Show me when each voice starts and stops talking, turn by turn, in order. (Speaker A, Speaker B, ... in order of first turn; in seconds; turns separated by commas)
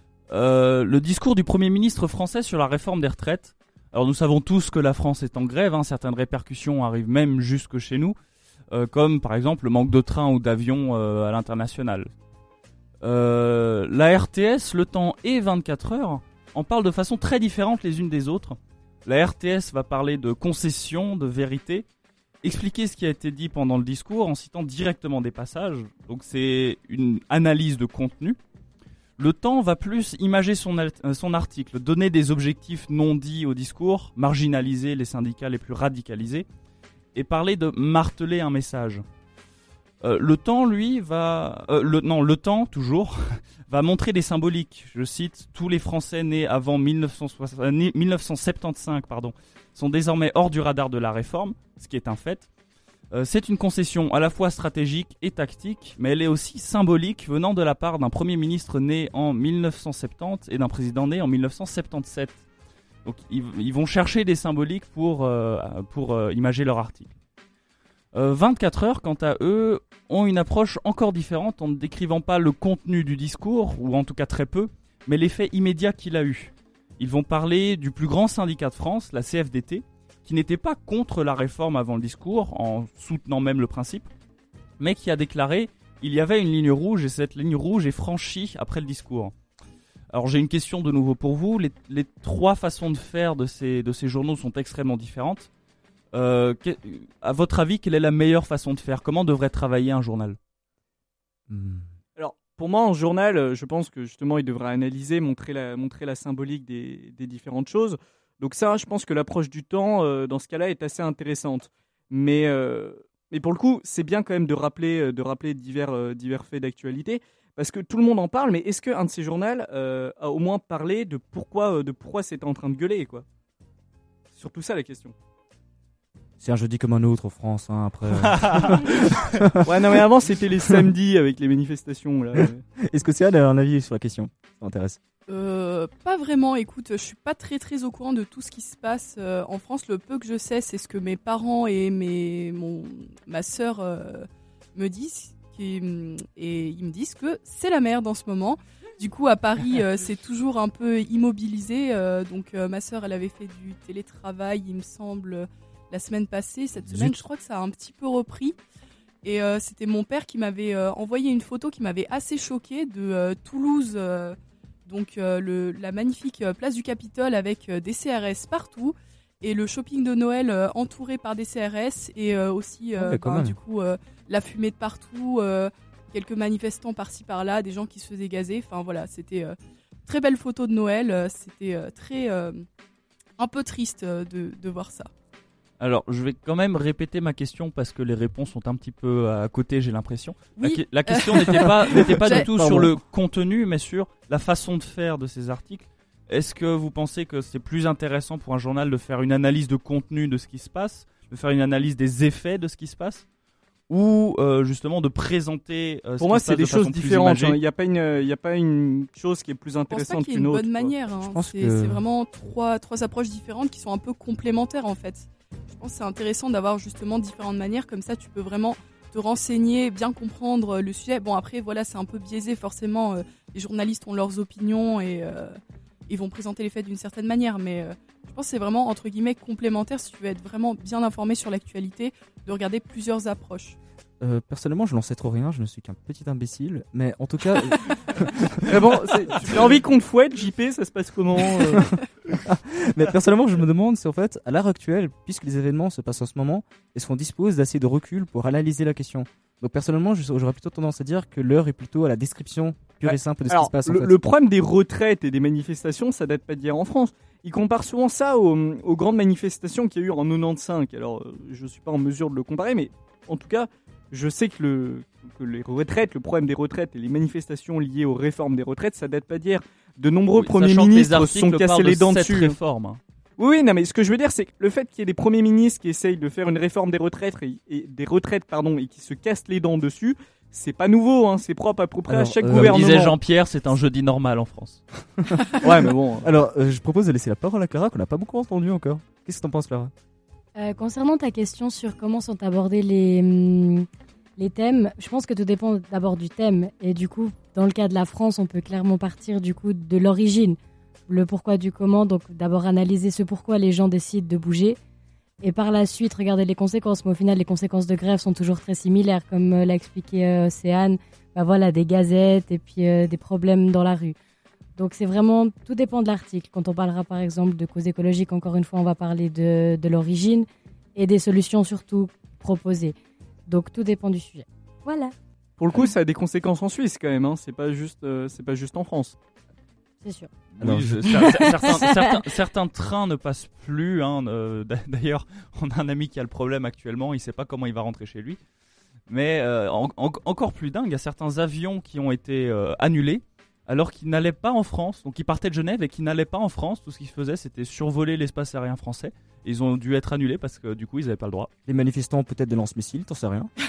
Speaker A: 0.3-8.2, Speaker A: 8.7-12.1, Speaker A: 13.0-21.9, Speaker A: 22.4-28.4, Speaker A: 29.2-36.5, Speaker A: 37.1-39.0, Speaker A: 40.0-52.5, Speaker A: 53.1-62.4, Speaker A: 63.0-67.1, Speaker A: 68.1-84.1, Speaker A: 84.8-89.3, Speaker A: 90.1-95.5, Speaker A: 96.1-100.4, Speaker B: 101.5-101.9, Speaker C: 102.2-123.2, Speaker C: 124.3-125.1, Speaker B: 126.4-129.9, Speaker A: 128.4-128.8, Speaker C: 129.6-132.6, Speaker B: 132.4-135.0, Speaker D: 135.3-158.6, Speaker B: 156.8-157.2, Speaker D: 159.2-182.7, Speaker B: 173.0-173.6, Speaker D: 183.4-185.1, Speaker A: 185.8-203.2, Speaker D: 190.6-192.5, Speaker B: 192.3-192.9, Speaker A: 203.9-207.6, Speaker C: 206.2-210.9, Speaker D: 209.9-233.8, Speaker B: 211.2-212.0, Speaker B: 234.2-238.9, Speaker C: 238.6-241.9, Speaker B: 241.5-241.9, Speaker B: 242.4-254.1, Speaker C: 253.0-272.6, Speaker A: 270.3-273.0, Speaker C: 273.4-283.1, Speaker B: 282.1-282.9, Speaker A: 282.5-284.8, Speaker C: 285.6-286.3, Speaker B: 286.2-289.9, Speaker E: 290.6-293.9, Speaker E: 294.4-304.8, Speaker E: 305.4-314.2, Speaker E: 314.8-323.0, Speaker E: 323.5-325.1, Speaker C: 325.6-329.2, Speaker E: 330.0-330.3, Speaker A: 330.5-338.4, Speaker B: 330.6-331.5, Speaker E: 331.1-332.2, Speaker A: 339.1-351.5, Speaker B: 351.7-353.5